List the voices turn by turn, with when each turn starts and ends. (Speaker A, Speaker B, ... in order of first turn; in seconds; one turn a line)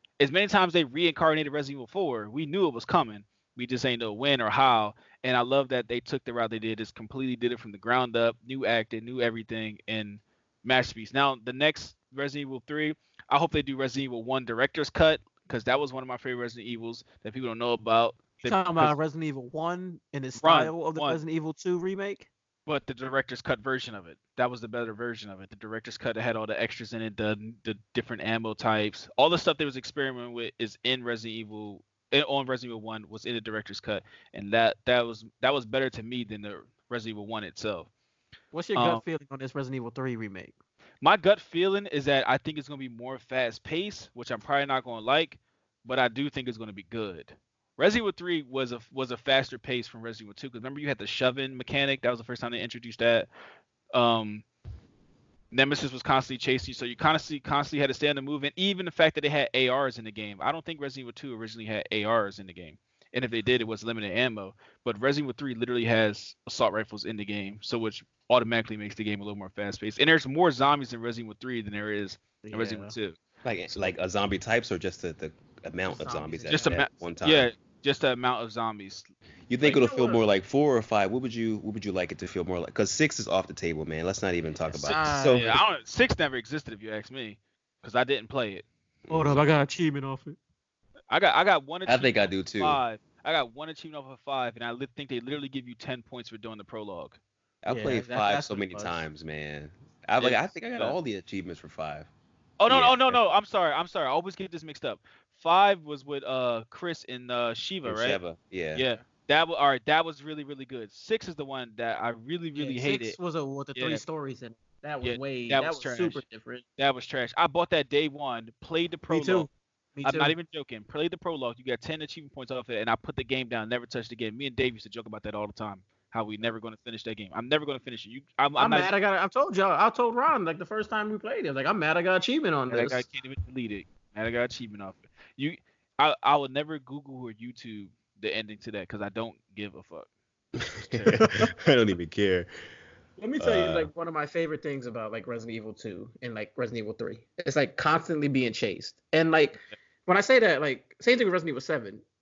Speaker A: 0.2-18.9
Speaker B: 18.4-22.3
Speaker A: 20.4-21.2
Speaker A: 22.6-37.9
Speaker B: 38.5-40.5
Speaker A: 38.8-39.0
Speaker A: 41.0-53.3
Speaker A: 53.9-54.4
Speaker A: 55.5-73.2
Speaker B: 72.4-72.9
Speaker C: 73.4-77.5
Speaker B: 75.9-76.6
Speaker A: 76.5-79.1
Speaker C: 79.5-85.6
Speaker B: 79.6-80.2
Speaker B: 84.7-85.5
Speaker A: 84.9-88.6
Speaker C: 89.1-89.4
Speaker B: 89.1-90.3
Speaker A: 91.1-97.2
Speaker C: 91.8-92.8
Speaker C: 97.6-102.1
Speaker B: 97.7-99.0
Speaker A: 100.2-101.0
Speaker A: 102.6-108.2
Speaker C: 102.7-103.2
Speaker C: 107.8-108.8
Speaker A: 108.7-113.2
Speaker B: 112.5-116.6
Speaker A: 113.8-114.0
Speaker A: 115.0-116.2
Speaker A: 116.8-119.5
Speaker B: 119.1-120.3
Speaker A: 120.0-128.9
Speaker B: 128.6-133.1
Speaker A: 132.7-140.1
Speaker C: 140.6-142.5
Speaker B: 143.2-152.0
Speaker C: 143.4-143.9